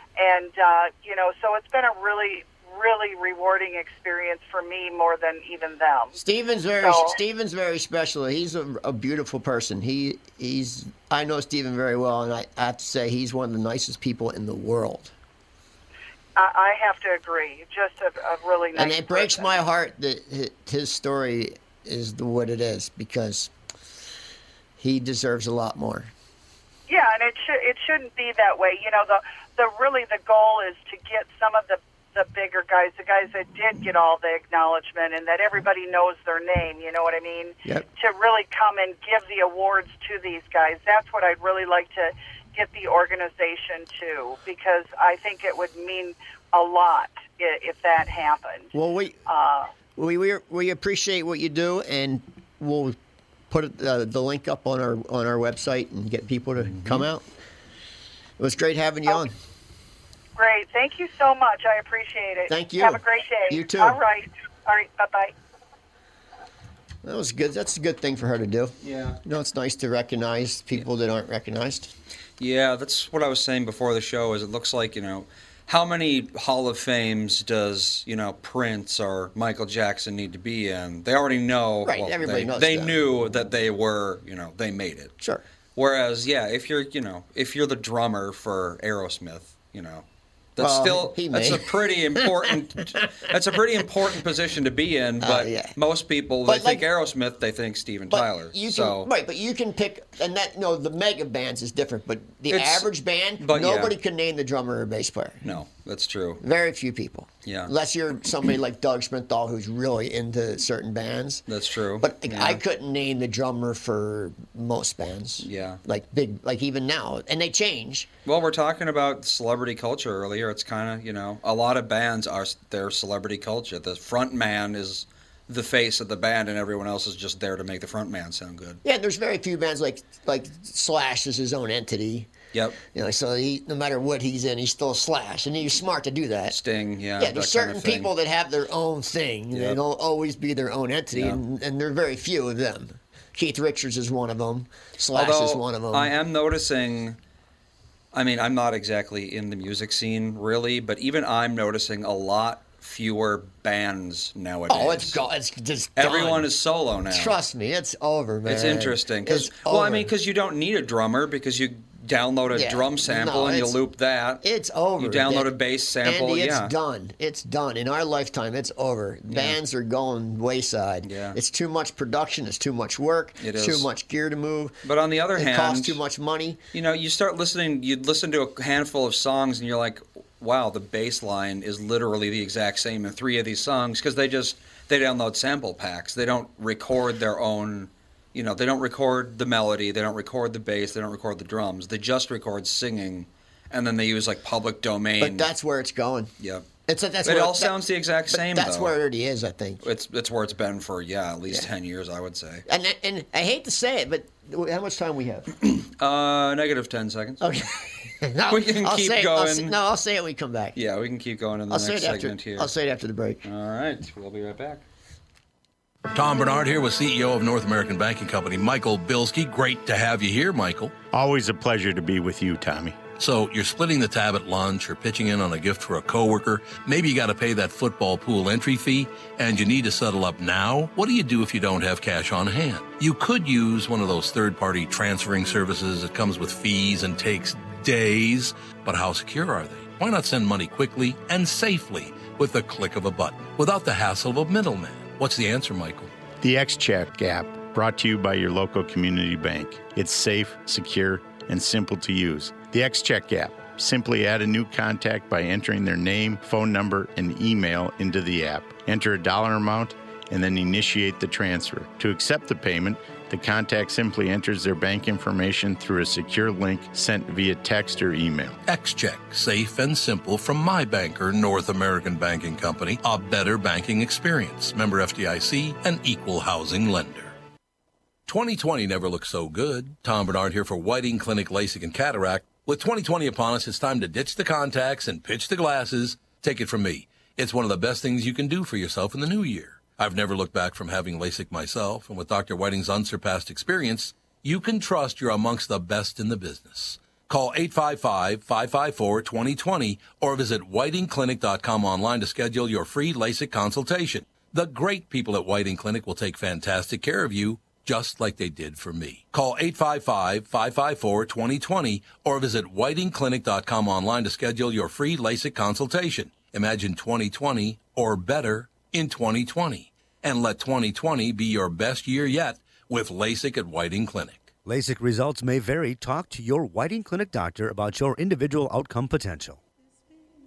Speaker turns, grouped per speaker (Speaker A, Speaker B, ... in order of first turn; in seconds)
Speaker A: 0.2-6.2, 6.8-7.2, 16.4-19.6, 26.9-48.7, 49.3-49.7, 60.4-65.3
Speaker B: 6.2-15.1, 18.8-23.5, 24.8-26.1, 48.7-49.2, 50.0-53.0, 53.5-57.2, 58.4-59.3, 62.5-64.0, 67.0-71.9, 81.8-83.0, 90.6-92.4, 95.2-95.8, 96.5-96.9, 98.1-105.5, 106.4-111.5, 112.0-118.1, 128.8-132.3, 132.9-136.6, 137.2-146.1, 154.7-156.5, 157.1-160.1, 162.5-163.8, 164.4-165.5, 166.0-174.8, 175.3-176.6, 195.2-196.3, 196.9-199.8, 202.7-205.5, 207.4-210.8, 211.7-213.4
Speaker C: 56.7-57.0, 68.8-69.2, 72.4-85.1, 85.8-90.0, 90.6-99.1, 102.5-102.9, 103.4-103.9, 105.4-106.4, 107.5-107.7, 111.5-112.6, 115.4-115.8, 118.2-128.8, 132.5-132.8, 136.5-138.1, 139.5-139.8, 145.1-147.2, 148.1-155.2, 156.0-157.4, 158.5-164.4, 165.0-166.7, 169.3-169.6, 171.0-171.4, 173.4-173.9, 174.8-176.0, 176.7-195.5, 196.4-196.7, 197.2-198.9, 199.8-202.7, 205.6-207.4, 208.5-209.8, 210.8-212.7, 213.4-214.8
Speaker D: 216.1-220.9, 223.2-246.1, 268.7-277.3, 278.3-324.5
Speaker E: 221.1-223.1, 246.4-268.6
Speaker F: 324.6-329.6